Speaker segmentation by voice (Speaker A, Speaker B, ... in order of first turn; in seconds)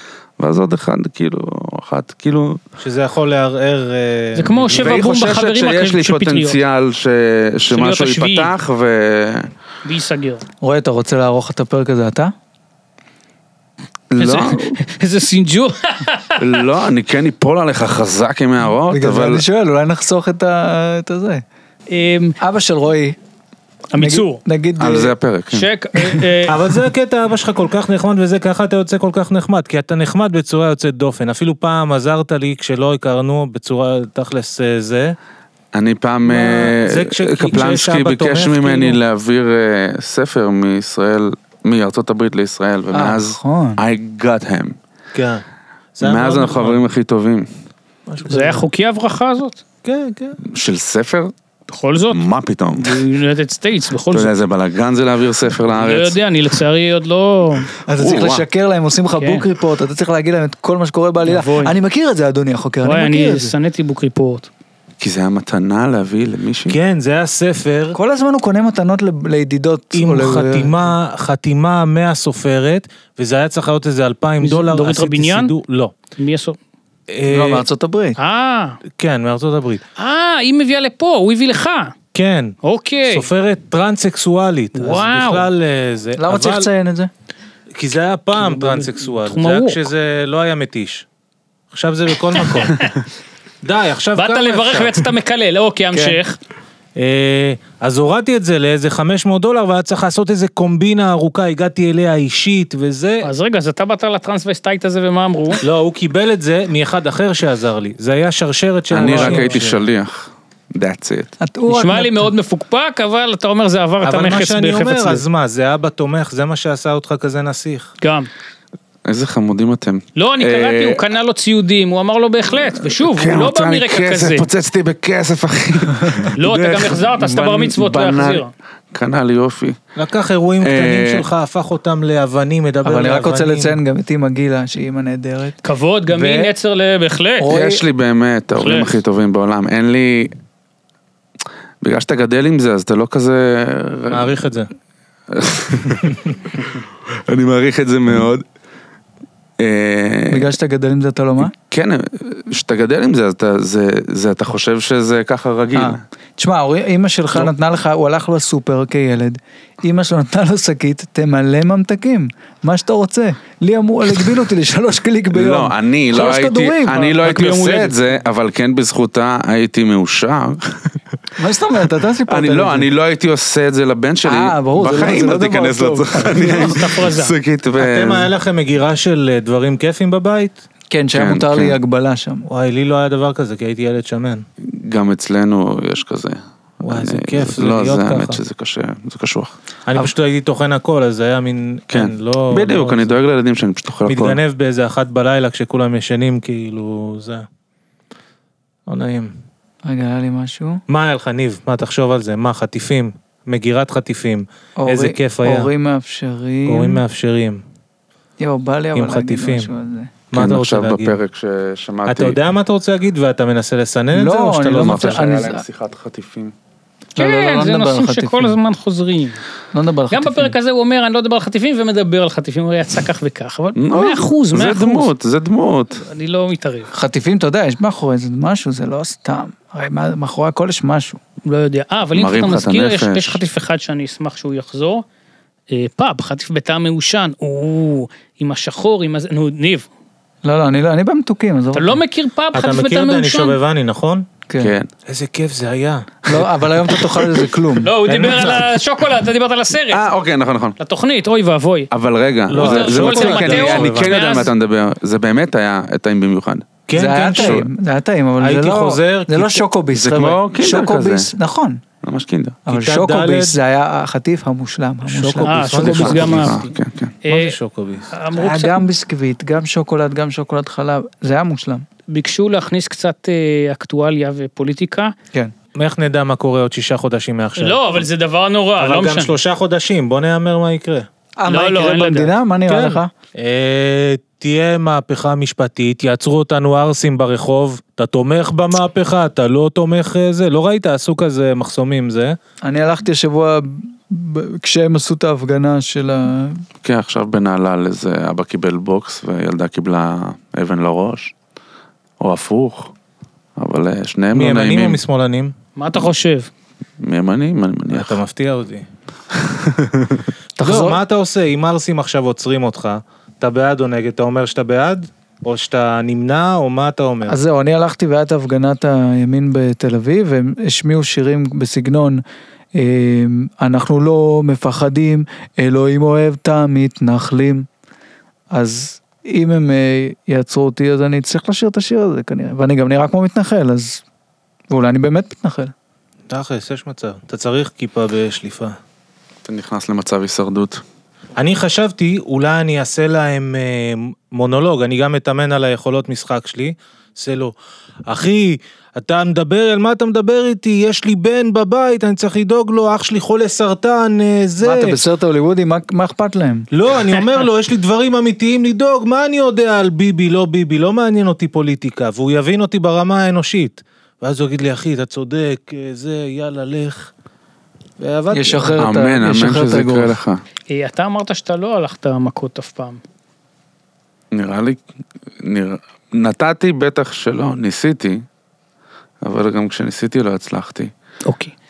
Speaker A: 0.4-2.6, 4.7-9.5, 14.1-14.8, 16.4-19.4, 24.8-25.7, 35.7-44.8, 46.0-47.5, 50.4-51.3, 52.1-53.0, 54.1-56.2, 58.0-58.4, 65.0-66.8, 108.9-111.3, 119.0-121.0, 122.8-129.8, 130.6-131.2, 137.5-140.3, 141.8-144.4, 145.3-148.4, 149.6-150.5, 151.4-156.0, 165.3-170.9, 172.3-178.3, 181.1-181.8, 184.6-189.5, 191.9-194.4, 210.3-212.4, 214.8-216.5, 223.8-226.0, 232.1-233.4, 244.6-244.9, 249.9-250.8, 251.9-256.7, 257.4-257.7, 259.9-261.3, 262.0-262.6, 265.8-267.1, 296.8-301.3, 302.2-302.9, 303.6-305.0, 307.0-308.2, 309.5-310.2, 339.4-340.8, 368.8-370.4, 374.3-374.8, 375.4-378.2, 379.2-380.9
Speaker B: 2.8-5.0, 26.5-35.1, 36.2-39.0, 45.1-45.4, 46.0-46.8, 48.1-48.6, 49.8-50.4, 66.7-68.0, 69.9-75.9, 77.1-77.7, 79.0-79.8, 82.1-82.5, 83.1-86.7, 87.8-91.0, 91.7-92.9, 93.6-95.1, 97.0-103.3, 105.6-109.8, 114.0-117.9, 129.9-133.8, 144.1-144.7, 177.8-180.6, 182.5-184.4, 186.8-188.4, 189.9-193.2, 194.1-197.4, 198.9-199.3, 200.9-205.7, 206.7-207.6, 208.9-209.7, 210.3-211.2, 212.1-215.3, 242.5-244.2, 245.1-246.1, 248.1-248.6, 252.5-254.4, 256.9-257.6, 258.4-259.6, 262.7-263.6, 265.1-266.6, 267.3-268.1, 275.8-278.0, 278.8-281.1, 282.7-292.4, 304.3-305.5, 307.9-308.9, 310.6-317.4, 336.3-338.7, 341.4-347.5, 348.1-355.0, 356.7-367.1, 368.0-368.8
Speaker C: 4.3-6.6, 7.7-8.5, 9.8-10.4, 14.2-16.5, 21.9-22.4, 23.9-24.4, 25.5-26.6, 48.2-49.6, 51.7-52.2, 52.8-54.3, 55.7-57.7, 59.2-59.5, 61.2-61.8, 62.8-64.5, 74.4-75.5, 76.2-76.6, 78.2-78.8, 80.0-81.9, 82.6-83.3, 84.8-85.5, 88.4-89.8, 92.5-92.9, 94.2-96.4, 103.2-105.6, 111.7-115.2, 118.0-118.3, 120.2-124.5, 126.3-128.5, 135.6-137.5, 138.6-139.0, 167.2-167.9, 176.2-177.3, 217.2-219.4, 220.1-225.1, 226.0-226.9, 231.4-235.0, 235.7-239.9, 241.7-243.6, 247.8-250.0, 250.8-251.9, 252.5-254.5, 265.4-266.7, 267.2-267.5, 268.1-268.8, 272.1-275.1, 277.6-279.4, 281.5-282.3, 305.8-306.5, 370.7-373.0, 381.2-381.5
Speaker D: 10.6-12.3, 18.9-21.4, 22.4-23.2, 23.9-25.1, 42.9-43.8, 57.9-63.5, 67.9-70.9, 77.3-78.2, 86.2-87.1, 95.9-96.2, 109.0-109.4, 111.4-112.3, 132.8-136.5, 137.4-137.8, 150.3-151.5, 155.7-167.9, 171.4-172.9, 174.2-176.8, 180.9-182.4, 199.8-200.8, 204.8-207.0, 208.4-210.1, 214.1-215.6, 217.2-218.6, 219.7-220.5, 226.9-231.2, 240.4-242.0, 244.5-244.7, 246.3-248.4, 256.9-261.8, 262.6-266.5, 268.3-271.8, 281.4-283.1, 292.6-296.6, 310.6-311.0, 317.2-322.2, 322.7-327.7, 328.5-334.0, 334.7-335.7, 354.6-356.7, 368.3-370.2